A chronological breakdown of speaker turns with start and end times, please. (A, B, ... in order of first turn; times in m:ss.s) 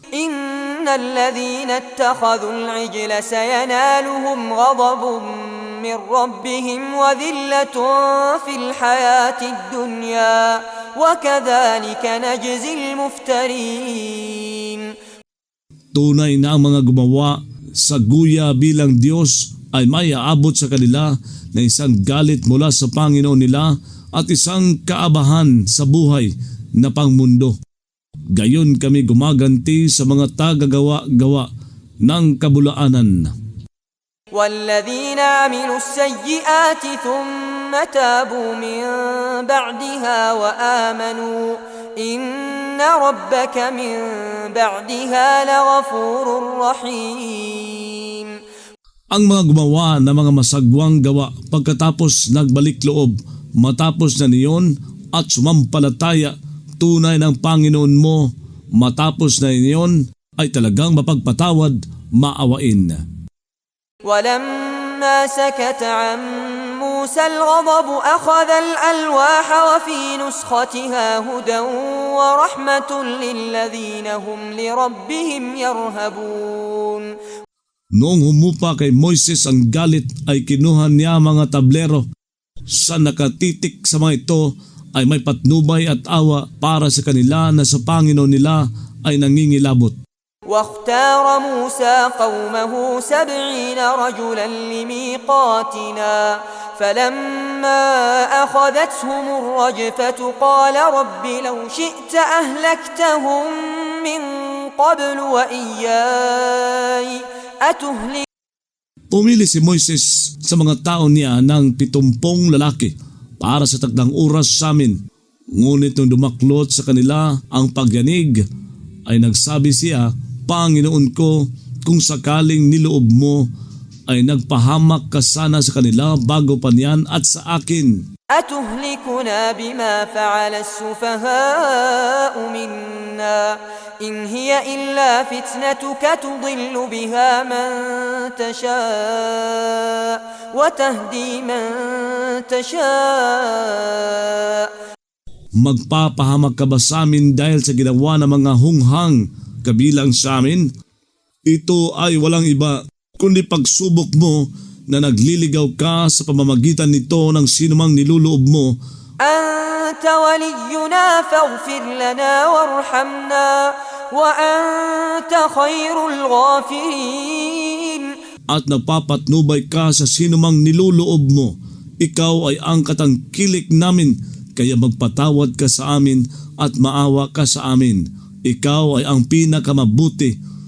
0:00.2-0:14.9 A
0:15.9-0:27.6 B
0:28.4-0:31.5 B
0:32.1-0:33.3 B
0:34.3-0:48.4 A
0:49.1-1:03.0 B
1:04.0-1:17.1 A
1:18.0-1:22.1 B
1:22.7-1:30.0 B
1:30.5-1:48.3 A
1:49.1-1:55.0 B
1:55.6-1:58.4 B
1:59.1-2:03.5 B
2:04.1-2:08.0 B
2:08.3-2:24.7 A
2:25.6-2:30.7 B
2:31.5-2:38.7 B
2:39.2-2:48.1 A
2:48.5-3:00.4 B